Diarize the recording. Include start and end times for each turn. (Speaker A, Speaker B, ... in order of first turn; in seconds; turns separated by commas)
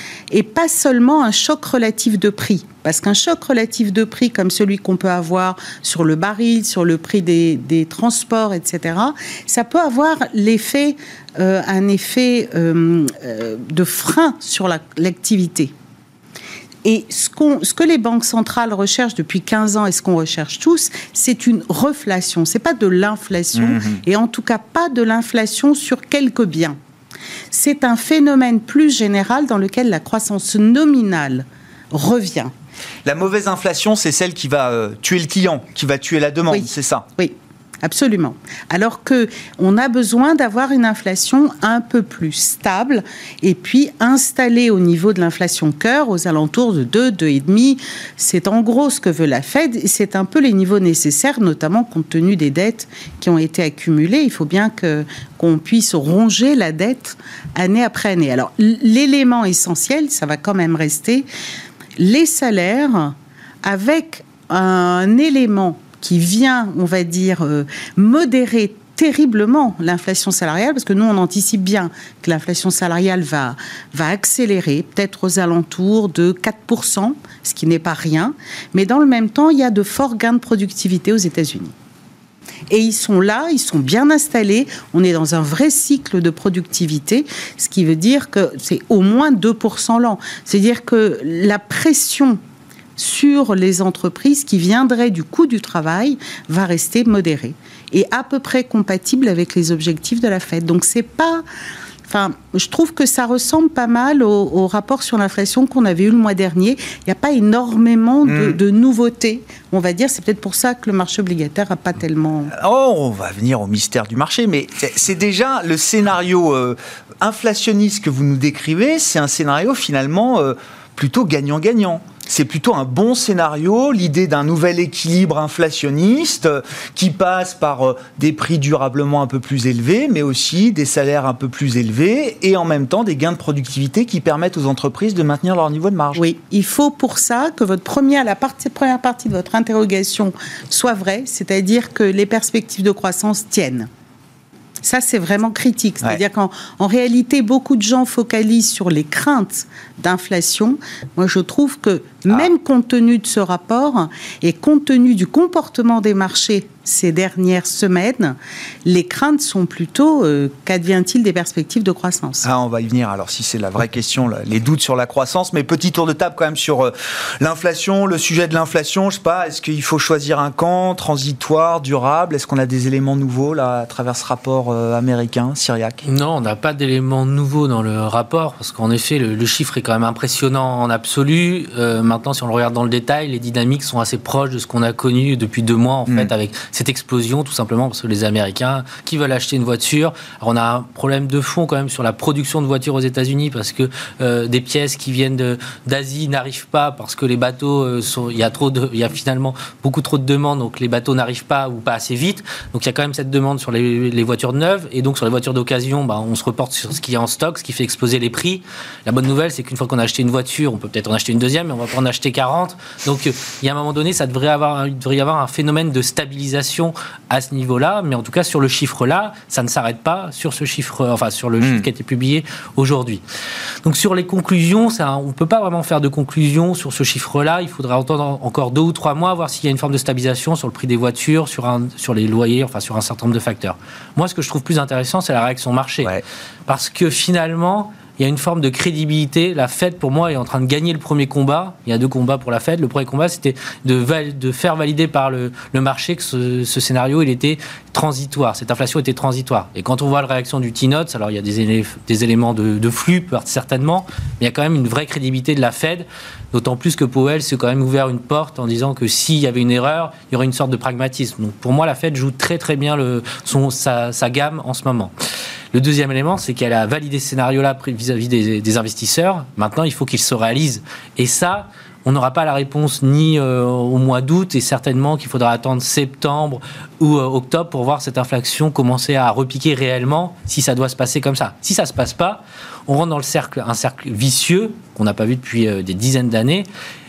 Speaker A: 0.3-15.7, Speaker A: 16.8-26.8, Speaker B: 23.5-24.0, Speaker A: 27.5-32.5, Speaker B: 33.0-37.1, Speaker A: 36.5-61.3, Speaker A: 62.0-81.7, Speaker A: 82.7-92.4, Speaker A: 93.0-101.4, Speaker A: 102.1-112.5, Speaker B: 108.2-108.6, Speaker B: 112.5-136.2, Speaker A: 136.2-143.9, Speaker A: 144.8-162.4, Speaker B: 162.4-176.0, Speaker C: 176.0-223.2, Speaker B: 221.6-221.9, Speaker C: 223.8-236.1, Speaker C: 236.7-265.1, Speaker C: 265.7-286.7